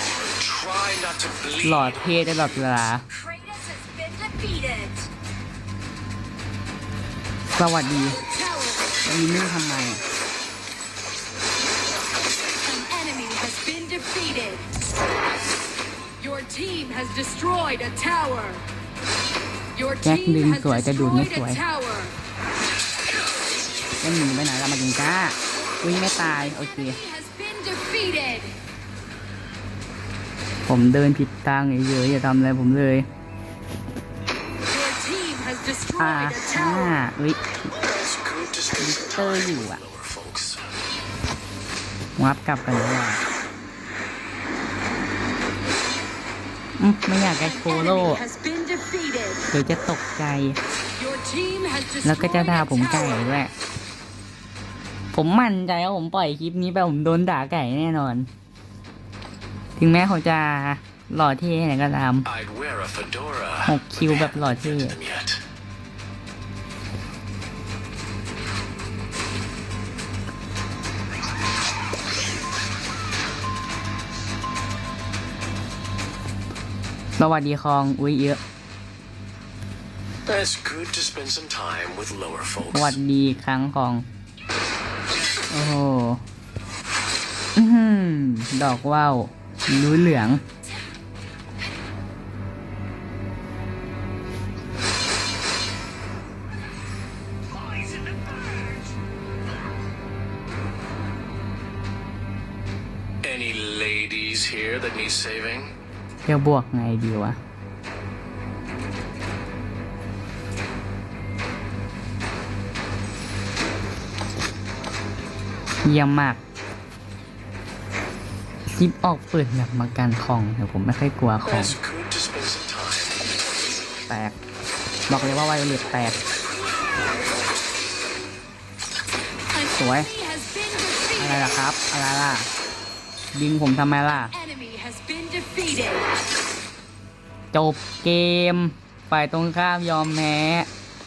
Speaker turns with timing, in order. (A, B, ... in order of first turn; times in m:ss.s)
0:00.2-0:02.7 A
0:01.6-0:03.0 B
0:03.1-0:05.0 C
0:07.5-0:08.2 B
0:08.2-0:09.0 C
0:09.0-0:10.0 B
0:12.6-0:14.7 C
0:16.2-0:18.6 C
0:19.8-0:22.1 C
0:20.0-0:21.6 B
0:24.0-0:27.0 B
0:26.4-0:28.5 C
0:30.7-0:33.1 B
0:34.7-0:37.0 C
0:36.0-0:37.5 B
0:37.8-0:40.6 A
0:38.8-0:39.8 B
0:42.2-0:43.2 B
0:46.8-0:48.2 B
0:47.4-0:49.4 C
0:49.5-0:50.6 B
0:51.0-0:53.2 C
0:52.0-0:53.5 B
0:55.1-0:58.3 B
0:59.8-1:02.3 B
1:02.2-1:05.4 A
1:03.6-1:05.0 B
1:17.2-1:18.4 B
1:20.2-1:23.0 A
1:22.7-1:24.0 B
1:25.5-1:26.2 B
1:27.6-1:30.4 B
1:43.2-1:45.7 A
1:46.2-1:47.4 B
1:55.8-1:56.4 B
1:58.7-2:01.8 B
2:01.4-2:03.3 A
2:04.1-2:04.4 B
2:05.1-2:06.2 B
2:09.5-2:11.5 C
2:09.7-2:10.1 B
2:11.2-2:12.5 B
2:13.3-2:14.3 B
2:14.2-2:16.1 C
2:17.5-2:20.7 B